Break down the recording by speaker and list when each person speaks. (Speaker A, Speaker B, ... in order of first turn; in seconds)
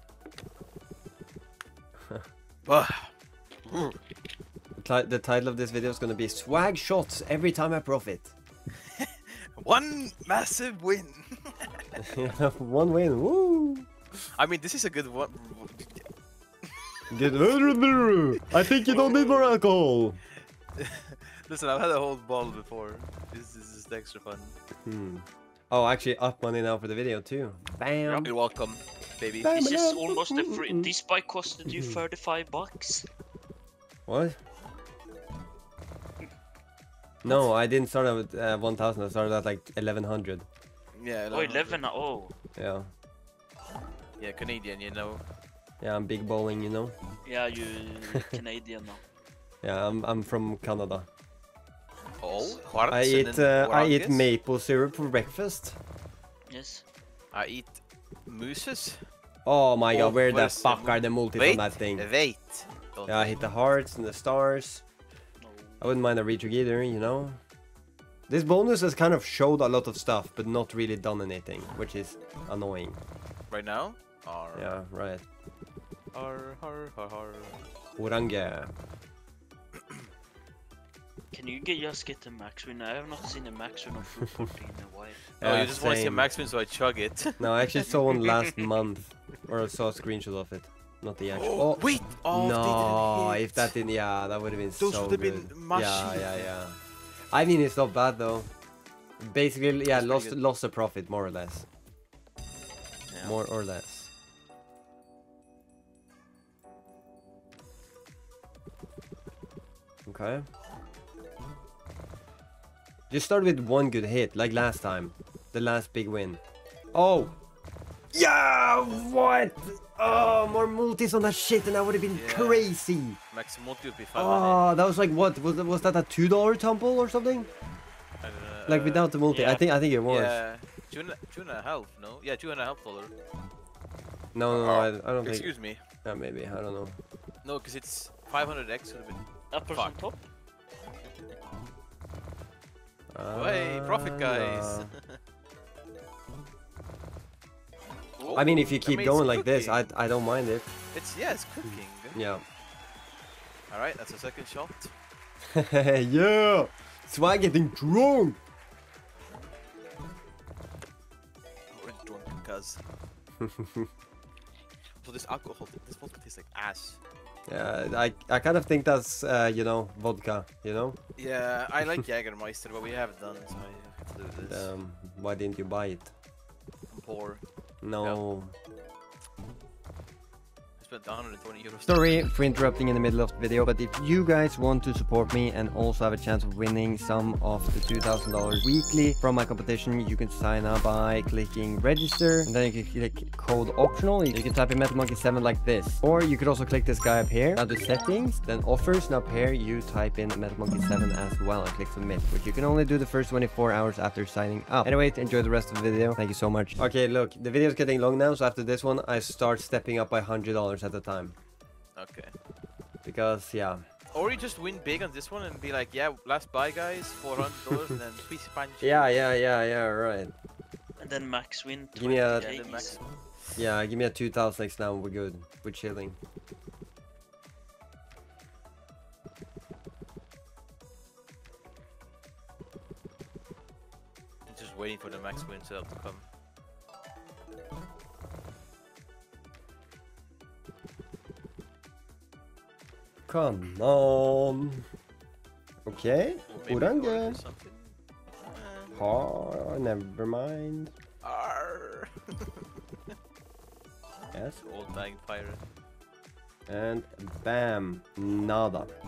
Speaker A: 2.6-3.1, 3.7-4.0, 8.9-11.8, 14.4-16.1, 16.6-17.6, 18.7-19.6, 20.8-24.6, 28.2-29.5, 40.9-41.8, 44.2-45.2, 52.2-54.3, 57.3-59.0, 59.9-63.4, 73.5-74.8, 76.1-77.7, 85.4-87.9, 91.3-93.8, 94.8-96.5, 99.9-100.4, 103.1-103.4, 122.1-122.7, 123.3-124.7, 128.2-129.2, 130.1-133.1, 134.5-135.8, 137.4-140.0, 143.3-145.2, 148.2-149.9, 150.9-152.2, 153.7-154.9, 161.7-162.8, 165.0-167.0, 171.2-174.7, 176.9-177.4, 180.8-182.3, 212.0-212.3, 214.1-219.2, 222.2-223.0, 234.5-236.2, 246.5-248.0, 248.5-249.0, 251.2-252.7, 254.6-255.6
Speaker B: 4.8-8.3, 12.0-13.9, 17.1-20.2, 24.9-28.3, 29.4-30.9, 31.7-32.0, 34.1-34.4, 37.2-40.5, 42.6-42.9, 45.8-47.0, 49.6-51.1, 52.9-55.8, 59.5-62.1, 63.1-64.8, 65.8-67.4, 68.3-73.0, 74.5-75.2, 78.0-78.7, 85.3-86.3, 87.4-96.8, 97.3-98.5, 99.2-101.7, 103.2-104.1, 110.1-110.5, 113.1-116.4, 116.9-117.3, 118.1-123.2, 124.2-127.5, 128.7-130.4, 134.3-135.5, 136.0-137.0, 143.1-144.9, 148.3-150.7, 152.1-152.4, 155.5-158.4, 163.4-163.9, 167.5-171.0, 174.4-176.1, 177.8-178.6, 181.9-211.4, 213.0-213.8, 217.6-217.9, 218.8-220.3, 221.9-222.5, 223.6-226.2, 243.3-244.8, 245.9-247.4, 248.9-250.9, 254.3-254.6, 256.7-258.9
Speaker C: 29.5-33.1, 41.3-42.3, 47.2-49.0, 52.4-52.6, 56.5-56.8, 65.4-65.9, 81.3-85.2, 129.3-129.6, 139.5-140.2, 148.2-148.5, 221.0-223.0